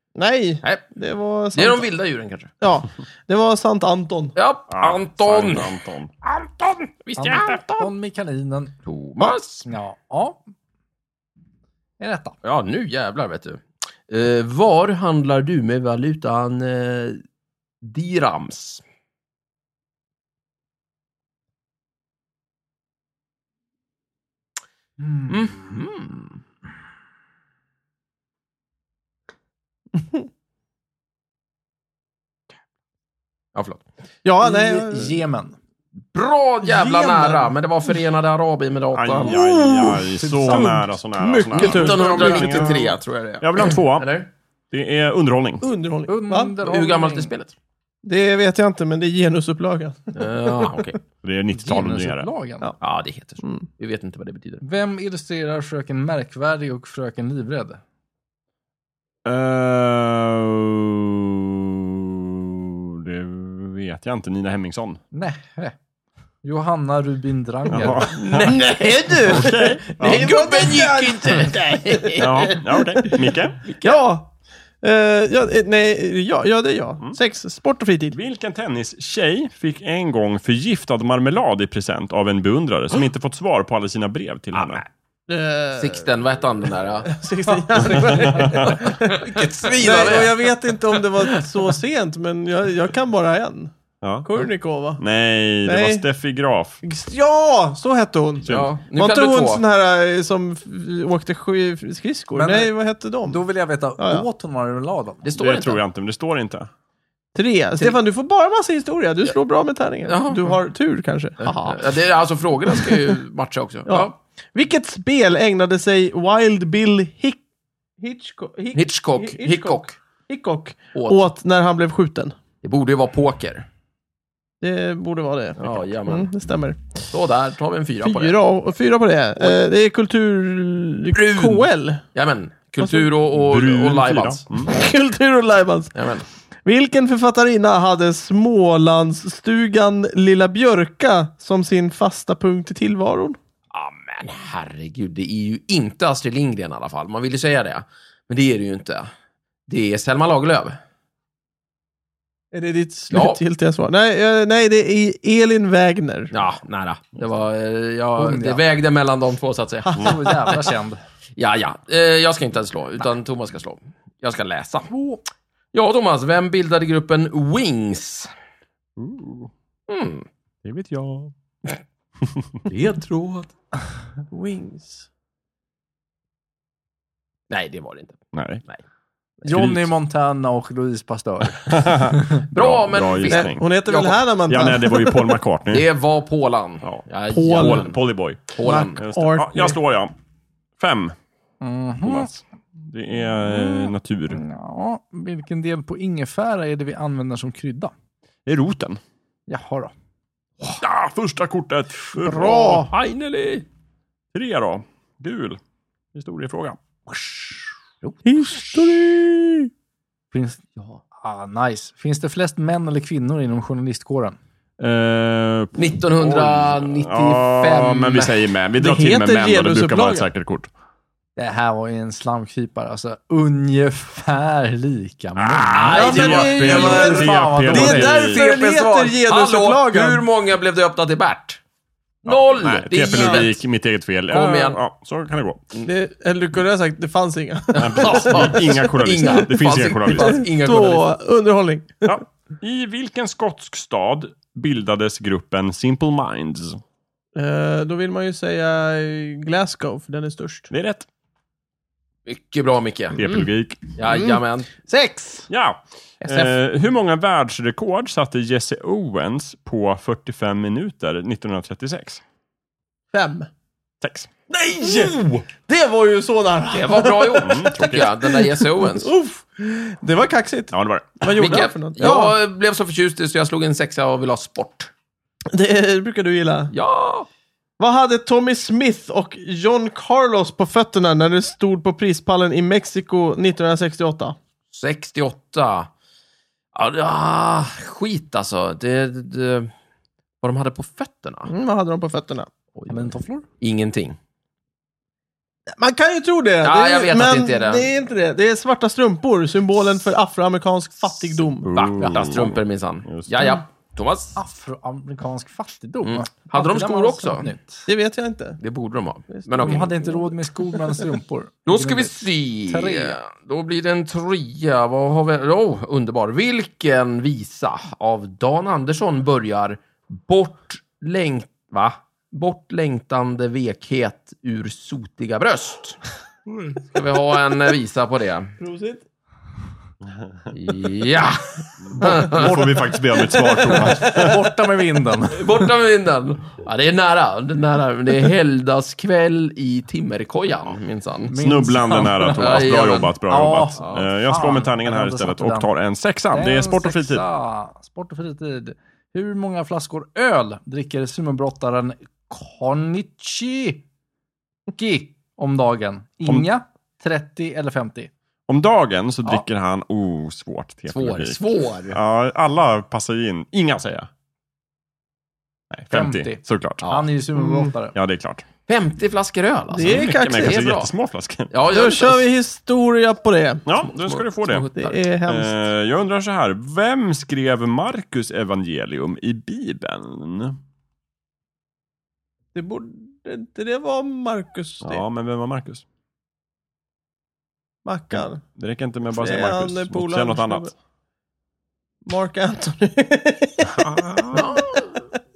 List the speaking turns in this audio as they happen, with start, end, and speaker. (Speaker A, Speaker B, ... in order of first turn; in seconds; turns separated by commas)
Speaker A: 0.1-1.9, Speaker B: 0.6-0.9, Speaker B: 1.5-2.5, Speaker A: 2.6-4.3, Speaker B: 4.3-7.9, Speaker C: 4.7-6.1, Speaker D: 7.2-8.7, Speaker B: 8.8-9.7, Speaker D: 9.6-10.4, Speaker D: 12.0-12.3, Speaker B: 12.4-17.2, Speaker B: 17.8-18.8, Speaker B: 25.3-26.4, Speaker B: 33.5-33.8, Speaker A: 34.2-35.2, Speaker D: 34.4-35.6, Speaker B: 36.1-39.4, Speaker A: 36.7-37.5, Speaker C: 38.9-44.1, Speaker A: 39.3-42.8, Speaker D: 40.2-40.9, Speaker B: 41.5-44.3, Speaker C: 44.7-45.6, Speaker A: 45.6-46.5, Speaker D: 46.1-47.3, Speaker B: 46.6-47.5, Speaker A: 48.0-50.9, Speaker B: 50.1-51.0, Speaker C: 51.2-52.3, Speaker D: 51.5-52.7, Speaker B: 52.8-54.6, Speaker D: 54.6-57.8, Speaker C: 59.2-65.0, Speaker D: 65.1-65.7, Speaker D: 66.4-68.1, Speaker C: 67.7-68.5, Speaker B: 68.1-69.4, Speaker A: 68.3-73.3, Speaker C: 69.2-70.3, Speaker B: 70.0-72.6, Speaker C: 72.2-73.6, Speaker B: 73.6-74.0, Speaker A: 73.8-78.2, Speaker C: 78.1-84.8, Speaker B: 84.5-84.8, Speaker A: 85.3-86.0, Speaker B: 85.8-87.2, Speaker A: 87.1-93.7, Speaker C: 87.8-88.8, Speaker B: 88.5-91.5, Speaker C: 94.0-94.3, Speaker A: 94.2-95.0, Speaker C: 95.0-96.8, Speaker A: 95.6-96.0, Speaker A: 96.8-103.4, Speaker B: 98.5-99.6, Speaker D: 102.3-102.7, Speaker D: 103.2-105.2, Speaker A: 104.0-104.3, Speaker B: 105.2-105.8, Speaker C: 105.4-106.7, Speaker A: 107.3-111.9, Speaker B: 110.1-110.5, Speaker B: 111.4-114.1, Speaker A: 112.7-113.1, Speaker A: 113.9-117.4, Speaker A: 118.0-122.3, Speaker B: 118.7-120.0, Speaker B: 120.9-121.2, Speaker B: 122.6-123.7, Speaker A: 124.6-127.0, Speaker B: 125.6-126.3, Speaker B: 127.1-128.3, Speaker A: 128.0-132.0, Speaker B: 131.1-134.4, Speaker C: 133.3-134.8, Speaker A: 134.6-135.9, Speaker B: 135.9-136.2, Speaker A: 136.6-143.4, Speaker B: 143.7-149.1, Speaker B: 149.7-150.8, Speaker A: 152.5-156.3, Speaker B: 153.1-153.4, Speaker B: 156.3-160.6, Speaker D: 158.2-158.6, Speaker D: 159.9-161.0, Speaker B: 161.4-164.9, Speaker D: 164.9-165.2, Speaker B: 165.7-168.3, Speaker C: 169.0-169.5, Speaker B: 169.9-170.2, Speaker C: 170.6-171.3, Speaker B: 172.7-173.5, Speaker A: 174.3-175.0, Speaker B: 177.5-178.8, Speaker C: 178.3-178.6, Speaker D: 179.4-182.4, Speaker C: 179.4-179.9, Speaker C: 181.6-183.7, Speaker B: 182.5-184.2, Speaker A: 183.2-185.4, Speaker C: 184.5-185.9, Speaker B: 185.7-188.0, Speaker C: 186.8-190.1, Speaker A: 187.3-187.8, Speaker B: 188.5-189.0, Speaker A: 188.6-189.8, Speaker C: 190.8-191.2, Speaker D: 191.6-192.3, Speaker C: 192.0-194.4, Speaker D: 193.5-197.9, Speaker C: 198.4-199.0, Speaker D: 199.5-199.9, Speaker C: 200.8-202.9, Speaker A: 202.2-202.9, Speaker B: 202.9-203.7, Speaker C: 204.3-205.6, Speaker C: 206.1-206.8, Speaker D: 207.2-207.5, Speaker A: 208.2-209.7, Speaker D: 210.3-214.4, Speaker C: 214.8-220.7, Speaker B: 215.7-218.3, Speaker A: 218.8-220.3, Speaker D: 221.4-228.2, Speaker C: 225.4-228.4, Speaker B: 225.7-227.2, Speaker A: 225.9-230.2, Speaker B: 228.2-231.6, Speaker B: 232.2-233.6, Speaker C: 232.2-235.7, Speaker A: 233.1-233.5, Speaker B: 234.3-234.8, Speaker A: 235.8-238.7, Speaker B: 237.7-241.1, Speaker C: 237.8-240.4, Speaker A: 240.2-242.2, Speaker C: 242.0-246.8, Speaker A: 247.3-250.7, Speaker C: 250.7-251.1, Speaker B: 252.2-253.2, Speaker C: 253.1-253.8, Speaker B: 254.0-254.7, Speaker A: 254.1-255.5, Speaker C: 255.5-262.2, Speaker A: 256.2-256.5, Speaker A: 263.1-263.5, Speaker C: 264.0-264.3, Speaker A: 264.5-272.3, Speaker B: 264.8-265.2, Speaker B: 266.7-269.1, Speaker C: 267.4-268.1, Speaker C: 270.7-271.2, Speaker B: 271.3-274.9, Speaker A: 275.5-276.7, Speaker B: 276.7-277.3, Speaker A: 277.8-284.4, Speaker B: 284.7-285.9, Speaker B: 286.7-289.7, Speaker B: 290.4-291.5, Speaker A: 291.5-292.5, Speaker B: 292.8-294.2, Speaker D: 292.9-293.4, Speaker A: 295.8-301.7, Speaker B: 296.6-297.9, Speaker C: 301.6-303.4, Speaker B: 301.6-304.4, Speaker D: 304.4-307.9, Speaker B: 306.0-307.5, Speaker A: 307.9-308.6, Speaker B: 308.6-309.9, Speaker A: 309.3-310.3, Speaker D: 309.6-313.2, Speaker B: 311.7-326.0, Speaker B: 326.9-328.5, Speaker A: 328.6-329.0, Speaker B: 330.5-332.6, Speaker C: 331.8-334.5, Speaker D: 333.2-335.5, Speaker B: 335.3-341.3, Speaker D: 341.3-345.7, Speaker C: 341.4-347.2, Speaker B: 342.3-343.1, Speaker B: 343.8-344.0, Speaker D: 346.3-353.8, Speaker D: 354.8-358.1, Speaker C: 358.5-364.1, Speaker B: 360.9-362.0, Speaker C: 365.7-366.8, Speaker D: 365.9-367.9, Speaker A: 367.4-367.7, Speaker C: 367.9-368.4, Speaker B: 368.7-370.9, Speaker A: 369.7-370.6, Speaker C: 369.8-371.5, Speaker B: 371.5-372.2, Speaker A: 371.7-373.6, Speaker C: 373.6-374.7, Speaker B: 373.9-375.0, Speaker A: 374.8-375.6, Speaker C: 375.2-380.6, Speaker A: 382.5-385.0, Speaker C: 384.8-385.8, Speaker A: 387.8-388.4, Speaker C: 388.6-390.7, Speaker A: 389.1-390.7, Speaker A: 392.1-394.8, Speaker C: 393.7-394.5, Speaker B: 394.3-395.0